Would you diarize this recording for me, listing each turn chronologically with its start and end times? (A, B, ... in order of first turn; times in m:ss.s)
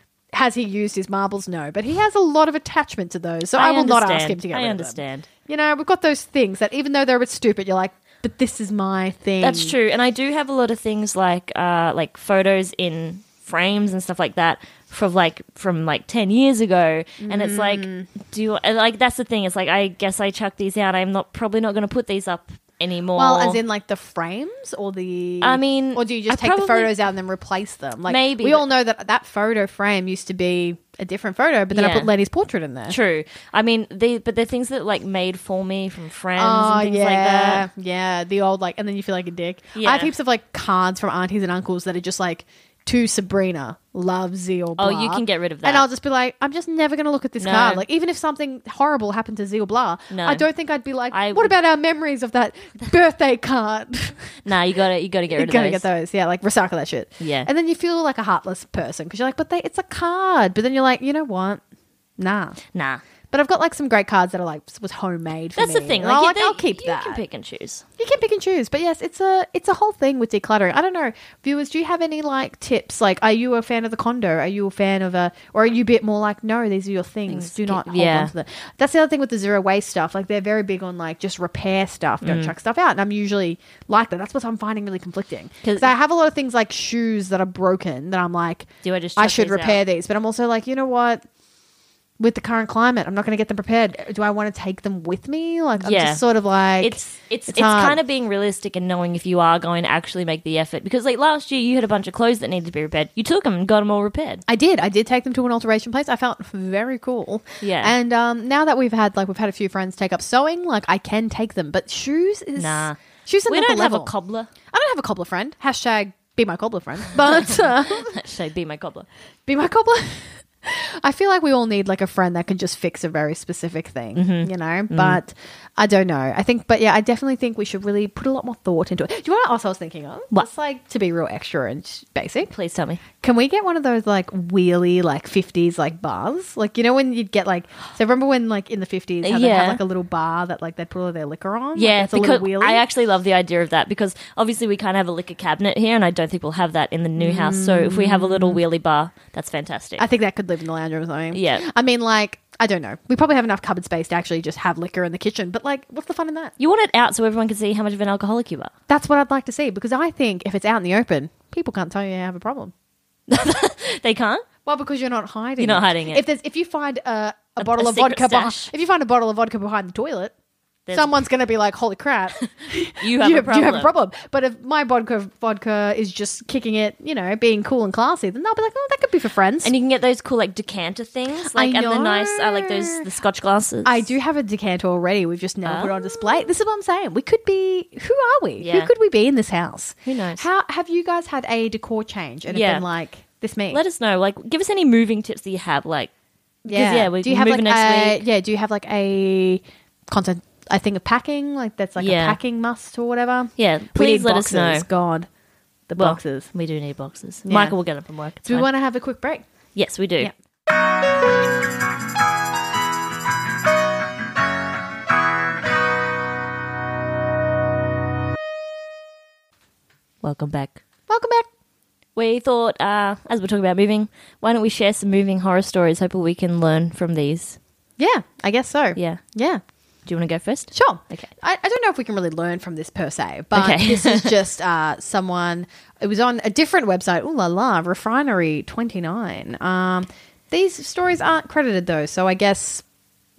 0:00.3-0:09.8 A
0:03.6-0:05.3 B
0:09.4-0:23.6 B
0:17.2-0:18.1 A
0:23.2-0:33.0 A
0:25.4-0:26.9 B
0:28.1-0:28.7 B
0:31.7-0:32.1 B
0:32.9-0:37.7 B
0:36.4-0:54.3 A
0:39.7-0:40.1 B
0:44.8-0:45.9 B
0:47.4-0:47.8 B
0:50.1-0:50.4 B
0:51.1-0:51.5 B
0:54.4-0:55.9 B
0:55.3-1:01.6 A
0:57.2-0:57.5 B
1:02.2-1:02.6 A
1:02.7-1:03.0 B
1:03.3-1:07.2 A
1:05.6-1:07.8 B
1:08.0-1:31.2 A
1:17.3-1:18.3 B
1:22.2-1:22.5 B
1:25.6-1:25.9 B
1:28.8-1:29.8 B
1:32.2-1:38.0 A
1:35.8-1:36.2 B
1:36.8-1:44.4 B
1:44.5-1:54.1 A
1:47.6-1:48.0 B
1:52.6-1:54.5 B
1:54.7-1:58.2 A
1:57.4-1:59.1 B
1:59.5-2:12.5 A
2:04.2-2:05.2 B
2:12.5-2:13.0 B
2:13.2-2:22.8 A
2:19.2-2:19.8 B
2:21.8-2:30.1 B
2:27.2-2:28.6 A
2:30.0-2:36.5 A
2:31.3-2:31.7 B
2:36.6-2:38.7 B
2:38.9-2:42.7 A
2:43.3-2:44.5 B
2:44.6-2:50.3 A
2:45.6-2:46.2 B
2:47.6-2:48.7 B
2:50.9-2:51.1 B
2:50.9-2:59.7 A
2:53.0-2:53.9 B
2:59.6-3:04.1 B
3:01.4-3:03.0 A
3:03.8-3:13.8 A
3:05.6-3:06.2 B
3:08.6-3:08.9 B
3:10.1-3:10.4 B
3:12.5-3:12.8 B
3:13.7-3:16.1 B
3:16.6-3:25.3 A
3:16.7-3:18.2 B
3:22.0-3:22.4 B
3:23.6-3:24.9 B
3:25.9-3:26.5 A
3:26.0-3:28.7 B
3:27.4-3:27.8 A
3:28.4-3:29.5 A
3:29.8-3:30.3 B
3:40.2-3:40.8 B
3:41.1-3:41.5 A
3:42.2-3:47.6 B
3:48.0-3:49.6 A
3:49.0-3:49.2 B
3:50.1-3:51.3 B
3:50.7-4:02.8 A
3:53.6-3:54.4 B